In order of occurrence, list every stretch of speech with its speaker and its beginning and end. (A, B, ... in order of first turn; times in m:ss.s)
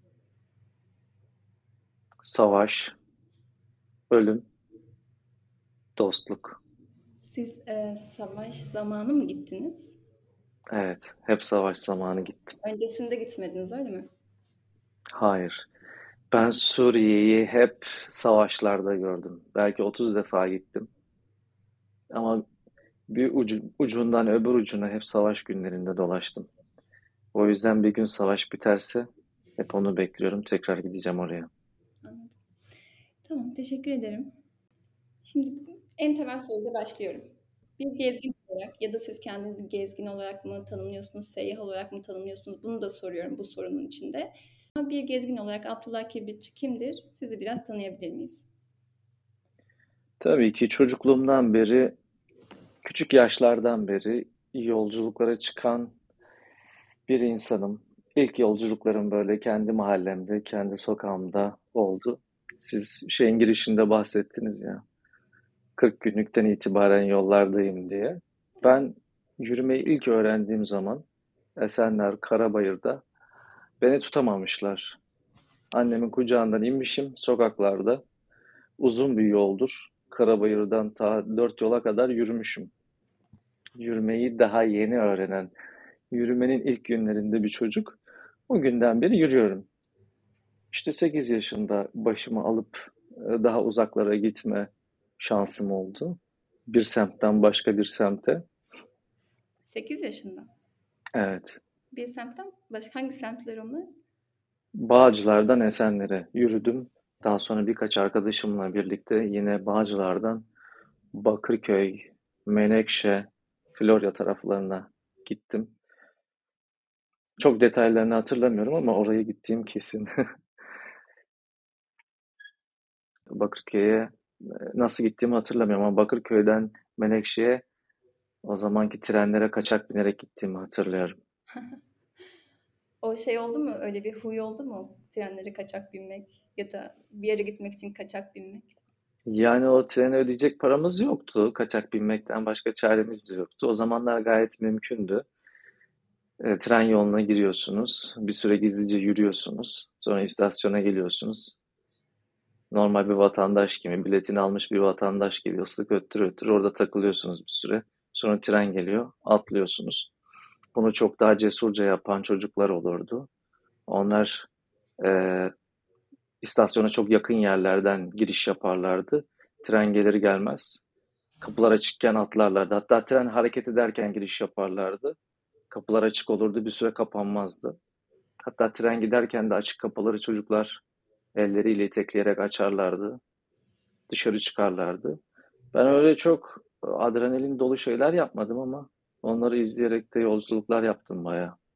0:02.2-0:03.0 A
0:04.1-0:04.4 A
0:06.0-0:06.6 A
0:07.2-0:10.0 B
0:10.7-0:12.6 A
0:12.6-0:14.1 B
0:15.1-0:15.7 A
0:16.3-0:20.9 A
0:22.1-0:22.4 A
0:23.1-0:26.5 A
0:27.3-0:31.5 A
0:32.0-0:32.3 B
0:33.2-0:34.3 B
0:35.2-0:48.4 B
0:50.2-0:51.9 A
0:52.8-0:55.9 A
0:57.1-1:04.8 A
1:05.8-1:11.0 A
1:11.6-1:13.0 A
1:13.8-1:15.0 A
1:15.7-1:18.0 A
1:18.8-1:22.7 A
1:23.8-1:25.5 A
1:26.1-1:28.0 A
1:28.5-1:29.7 A
1:30.7-1:36.2 A
1:36.7-1:38.4 A
1:39.6-1:40.5 B
1:41.1-1:41.6 A
1:41.9-1:43.9 B
1:44.8-1:50.4 A
1:51.1-1:55.7 A
1:57.4-2:00.1 A
2:03.3-2:07.6 A
2:08.4-2:11.2 A
2:13.0-2:18.7 B
2:19.3-2:25.2 A
2:26.4-2:31.5 A
2:32.7-2:40.1 A
2:40.7-2:43.3 A
2:43.9-2:44.5 A
2:45.0-2:45.5 A
2:46.4-2:50.8 A
2:51.4-2:55.2 A
2:55.7-2:57.8 A
2:58.4-3:00.8 A
3:01.4-3:03.2 A
3:04.1-3:05.2 A
3:05.7-3:11.5 A